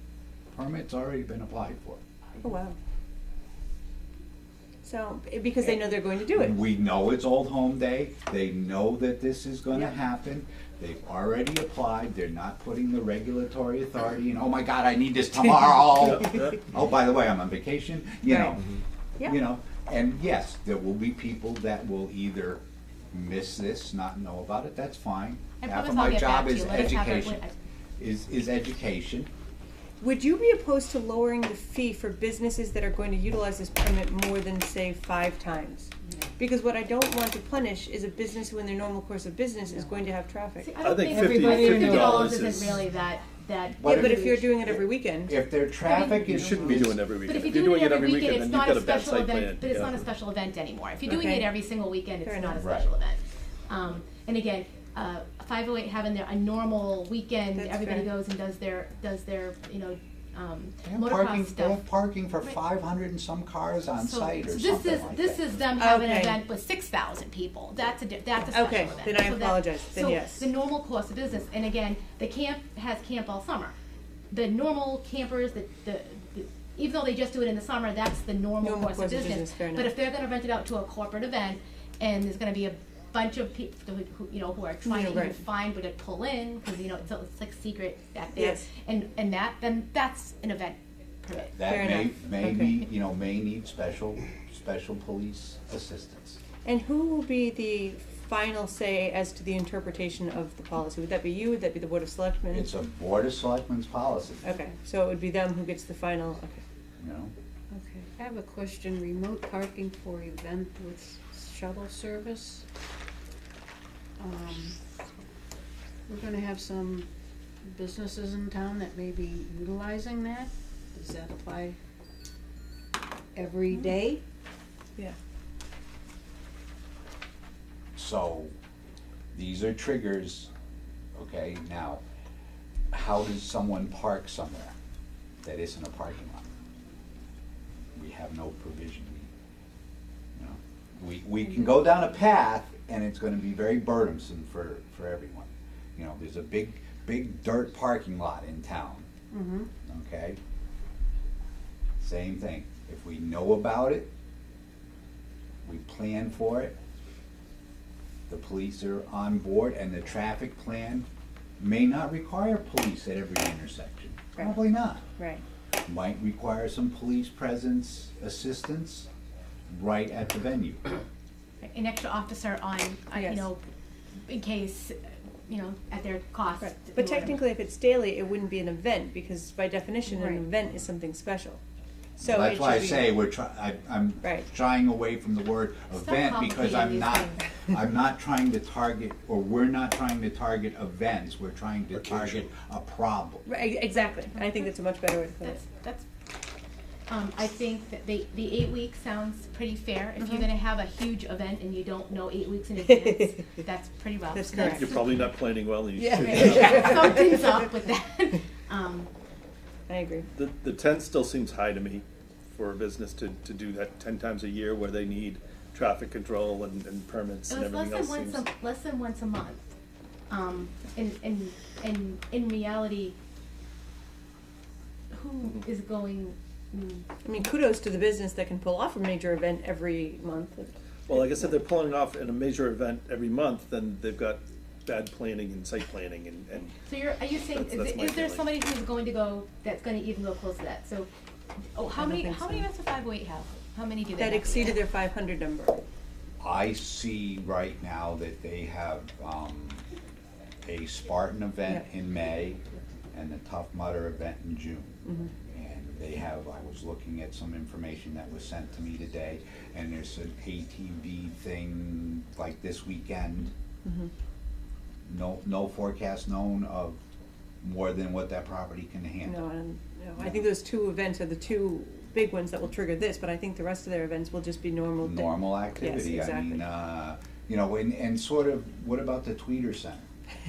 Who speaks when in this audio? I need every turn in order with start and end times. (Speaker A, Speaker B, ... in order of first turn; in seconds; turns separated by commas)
Speaker A: 0.5-2.0, Speaker B: 2.4-2.8, Speaker B: 4.8-6.6, Speaker A: 6.3-18.6, Speaker A: 19.2-27.4, Speaker C: 25.6-27.5, Speaker A: 28.0-29.3, Speaker B: 30.0-40.7, Speaker C: 40.6-44.5, Speaker D: 40.8-42.8, Speaker E: 41.1-42.2, Speaker A: 43.8-44.4, Speaker B: 43.8-46.1, Speaker A: 45.3-47.0, Speaker C: 45.8-46.7, Speaker D: 46.3-50.1, Speaker C: 47.2-61.8, Speaker B: 51.0-51.5, Speaker B: 52.2-52.6, Speaker A: 52.6-52.9, Speaker B: 57.5-58.1, Speaker A: 60.8-65.6, Speaker C: 64.0-73.7, Speaker B: 65.8-66.4, Speaker B: 68.5-70.5, Speaker C: 74.3-91.6, Speaker B: 78.6-79.9, Speaker B: 84.8-85.4, Speaker B: 88.3-88.7, Speaker A: 91.5-96.4, Speaker B: 91.6-92.8, Speaker B: 96.6-102.7, Speaker A: 102.5-104.4, Speaker B: 104.4-106.6, Speaker A: 107.0-107.3, Speaker E: 107.7-112.7, Speaker E: 114.2-114.8, Speaker E: 116.1-117.1, Speaker E: 117.6-121.8, Speaker E: 123.3-124.2, Speaker A: 127.9-128.5, Speaker A: 129.3-130.5, Speaker A: 131.2-132.0, Speaker A: 132.9-134.8, Speaker A: 135.4-136.5, Speaker A: 137.9-139.3, Speaker A: 140.4-149.1, Speaker E: 149.3-149.7, Speaker A: 149.8-150.4, Speaker A: 152.0-154.1, Speaker A: 155.6-156.7, Speaker A: 158.3-161.1, Speaker A: 161.6-165.0, Speaker B: 165.2-165.4, Speaker A: 165.8-169.1, Speaker A: 169.7-170.9, Speaker C: 171.6-173.6, Speaker B: 173.1-173.5, Speaker C: 174.3-177.4, Speaker B: 176.6-181.6, Speaker B: 182.2-183.1, Speaker A: 182.2-193.4, Speaker B: 184.2-184.5, Speaker C: 186.0-187.4, Speaker D: 192.1-192.4, Speaker B: 193.4-195.6, Speaker C: 194.3-194.7, Speaker C: 195.4-196.1, Speaker C: 197.1-205.3, Speaker B: 202.8-203.4, Speaker B: 204.3-204.9, Speaker D: 204.6-207.1, Speaker B: 205.9-207.5, Speaker C: 206.3-209.1, Speaker B: 209.9-210.2, Speaker D: 210.3-218.5, Speaker C: 217.5-219.7, Speaker C: 220.3-223.2, Speaker C: 225.1-227.2, Speaker B: 227.2-231.3, Speaker D: 231.1-236.8, Speaker C: 236.9-241.1, Speaker D: 237.4-238.5, Speaker C: 241.7-244.8, Speaker B: 241.9-242.7, Speaker B: 244.2-245.8, Speaker A: 246.4-249.8, Speaker A: 250.6-252.6, Speaker A: 253.1-255.0, Speaker B: 255.0-255.3, Speaker A: 255.5-263.5, Speaker B: 263.8-264.1, Speaker A: 265.1-267.0, Speaker A: 267.6-269.4, Speaker B: 269.2-276.6, Speaker A: 270.2-270.5, Speaker A: 275.0-280.1